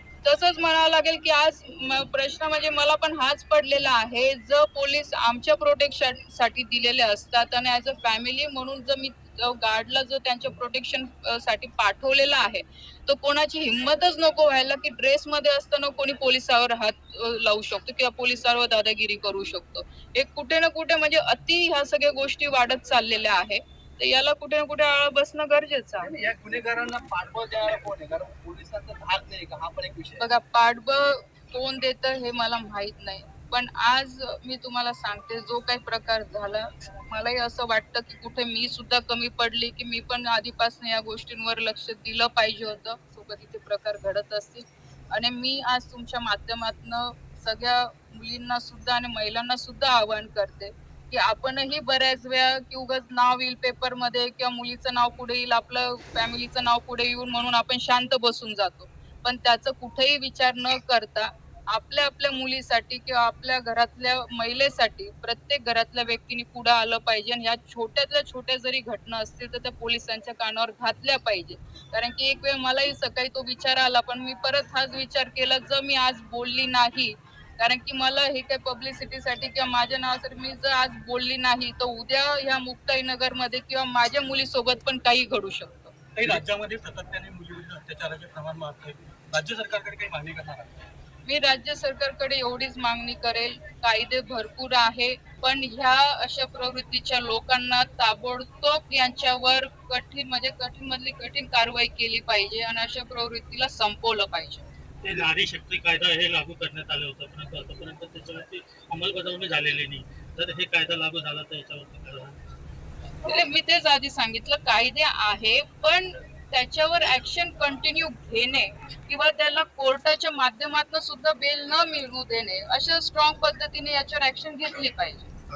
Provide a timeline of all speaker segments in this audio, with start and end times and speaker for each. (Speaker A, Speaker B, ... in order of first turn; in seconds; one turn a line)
Speaker A: 0.2-26.1
Speaker B: 26.0-30.3
Speaker A: 30.2-85.9
Speaker C: 86.2-90.7
Speaker A: 91.2-104.6
Speaker C: 105.0-112.4
Speaker A: 113.2-125.3